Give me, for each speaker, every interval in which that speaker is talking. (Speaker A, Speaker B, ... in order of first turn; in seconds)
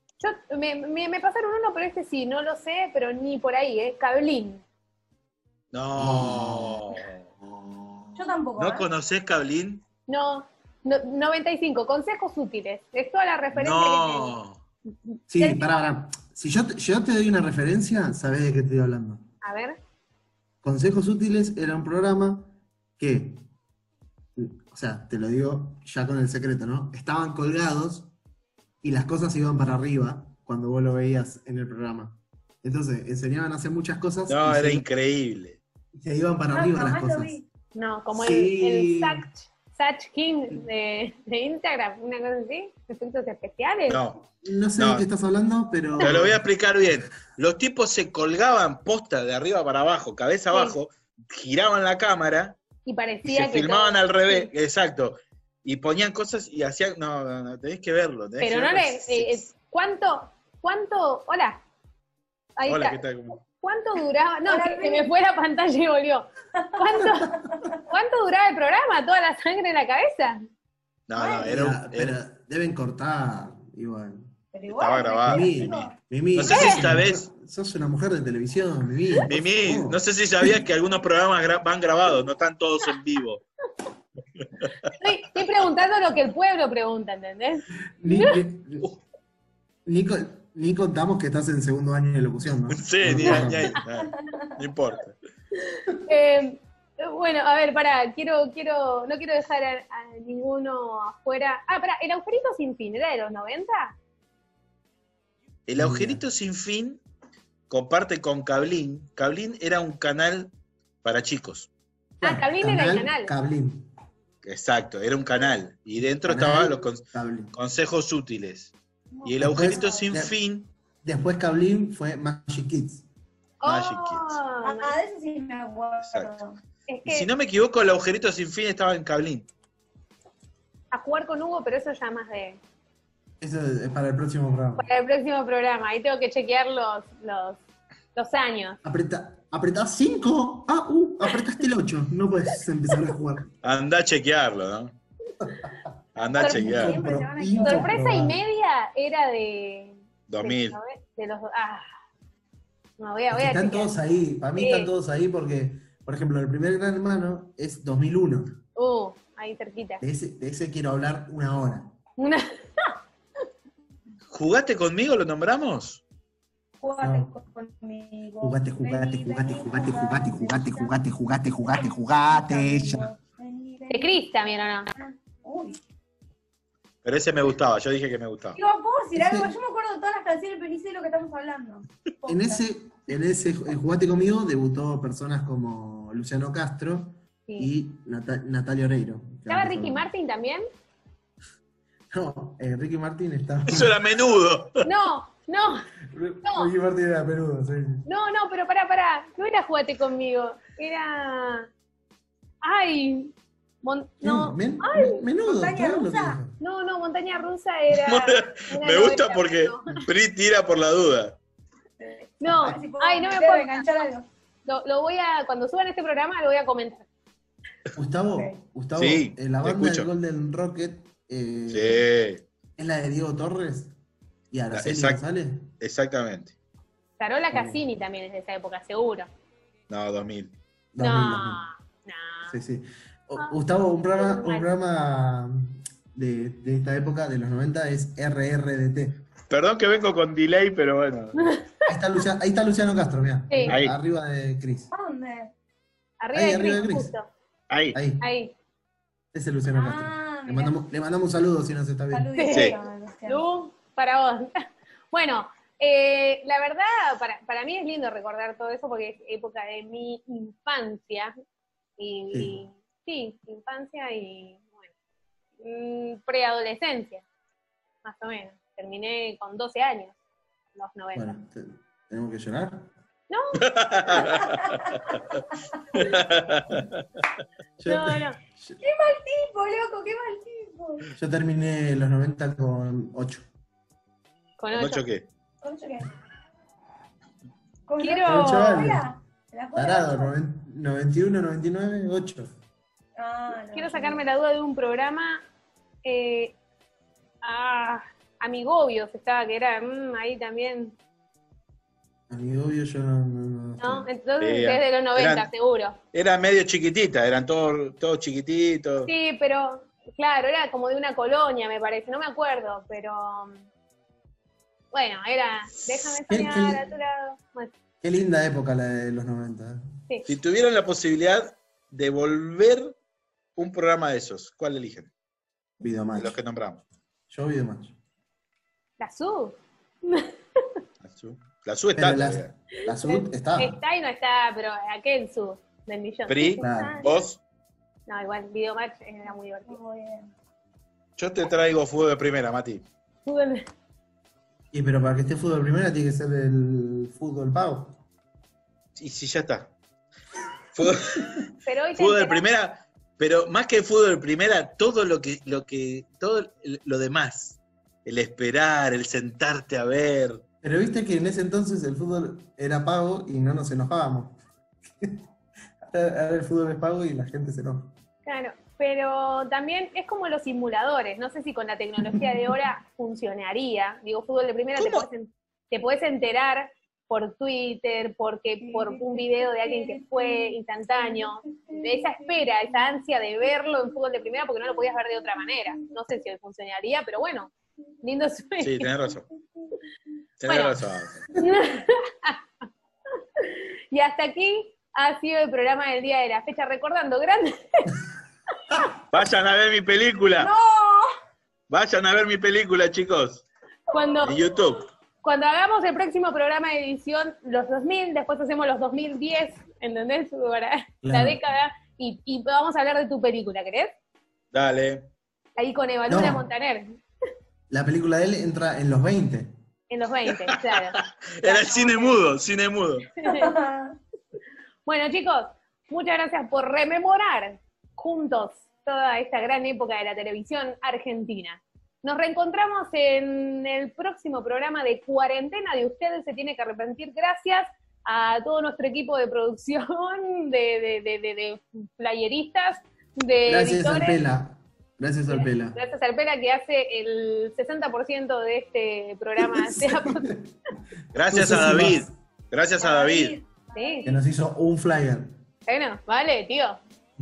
Speaker A: 0.2-4.6, 10.1-14.3, 19.4-19.8, 37.7-44.0, 50.5-50.8, 52.8-54.5, 58.4-61.6, 62.6-67.4, 67.9-70.4, 76.5-76.8, 85.0-88.4, 95.7-104.0, 112.2-113.3, 123.6-125.0, 126.9-127.3, 130.9-132.6, 134.8-137.6, 138.2-138.8, 146.4-146.8, 147.6-151.8, 153.0-153.9, 154.6-154.9, 158.8-160.0, 162.2-162.9, 173.9-174.9, 189.5-190.6, 194.8-195.8, 196.4-196.7, 198.1-201.7, 202.6-205.2, 206.6-210.0, 212.4-214.1, 214.7-217.1, 227.2-229.3, 231.0-232.5, 234.1-234.7, 241.4-241.7, 243.5-243.8, 246.2-247.3, 248.2-248.5, 252.4-252.8, 253.3-261.3, 262.0-264.9, 265.6-267.2, 268.0-270.1, 270.7-271.3, 273.3-274.2, 277.9-278.4, 284.6-285.0, 288.0-288.9, 293.7-295.4, 296.0-296.6, 297.4-300.9, 303.8-306.0, 309.0-313.6, 314.9-317.7, 329.0-330.6, 332.8-337.1, 338.1-339.8, 343.2-343.6, 351.6-352.4, 368.2-387.5, 388.0-388.9, 390.5-390.8, 391.3-392.4, 393.4-398.0, 403.9-404.4, 405.2-413.9, 415.6-416.9, 419.9-422.2, 423.2-423.5, 424.9-444.2, 445.3-450.3, 453.7-454.1, 455.7-456.8
Speaker B: 5.7-9.8, 13.5-14.6, 34.3-35.6, 43.9-45.0, 46.0-52.6, 53.2-59.5, 62.6-63.4, 71.1-72.2, 74.7-75.8, 76.3-77.3, 79.2-83.4, 84.4-84.9, 92.7-95.2, 105.7-107.0, 107.7-111.7, 114.4-118.7, 119.2-120.7, 123.6-124.4, 126.0-126.3, 127.0-129.5, 143.6-144.9, 146.2-147.0, 150.3-150.8, 164.3-166.0, 177.0-178.6, 193.7-194.8, 207.9-211.4, 219.0-220.1, 221.7-222.4, 224.7-225.2, 225.8-226.6, 229.9-230.6, 239.5-241.4, 243.7-243.9, 247.7-248.0, 252.5-252.8, 273.6-275.2, 275.9-277.0, 284.7-285.3, 304.4-305.5, 306.1-309.1, 320.3-322.9, 323.6-325.1, 326.1-326.8, 331.0-332.5, 336.3-337.4, 341.2-342.8, 348.9-349.7, 350.7-360.4, 388.6-389.2, 390.4-391.3, 399.1-400.5, 401.7-403.4, 404.2-404.8, 414.5-415.1, 420.5-423.1, 451.1-453.4
Speaker C: 5.9-7.0, 15.3-19.2, 20.6-23.4, 24.4-28.1, 28.8-34.8, 36.0-37.4, 38.1-39.2, 44.4-46.4, 71.4-74.3, 75.2-80.0, 88.0-88.9, 89.8-93.8, 105.8-106.2, 112.2-113.9, 116.2-117.5, 119.4-120.3, 121.0-123.0, 133.4-134.9, 138.8-143.5, 146.4-148.4, 153.3-158.6, 160.0-161.9, 167.0-167.3, 168.4-173.1, 179.1-179.5, 182.3-190.1, 192.1-193.9, 196.1-198.0, 204.2-206.6, 217.9-222.1, 222.8-223.9, 224.5-225.7, 227.5-227.8, 230.9-231.6, 232.5-239.2, 241.8-244.9, 246.3-247.1, 247.9-248.2, 249.3-252.3, 262.3-262.6, 271.1-272.9, 277.8-278.8, 281.1-283.4, 288.3-289.1, 289.7-292.5, 302.3-304.1, 316.3-316.8, 318.0-319.8, 325.8-326.4, 327.3-327.9, 331.9-333.8, 336.6-337.1, 344.7-348.0, 360.6-364.4, 365.8-367.9, 374.8-375.0, 411.0-411.4, 416.1-416.4, 417.7-419.5, 443.4-445.8, 449.4-450.5, 451.3-452.1, 454.1-455.4
Speaker D: 8.2-8.9, 15.4-15.6, 36.5-37.4, 64.5-65.1, 66.5-67.8, 71.1-71.5, 74.5-75.9, 94.0-94.5, 119.1-120.1, 124.6-126.6, 146.4-148.0, 166.8-170.9, 171.9-175.8, 178.6-182.6, 205.4-206.4, 212.0-214.3, 244.9-245.5, 249.7-250.7, 252.1-253.4, 278.8-281.1, 285.6-286.1, 287.9-290.3, 293.2-294.2, 339.7-340.3, 378.6-382.3, 400.4-401.1, 403.9-404.2, 423.2-424.0, 452.8-454.2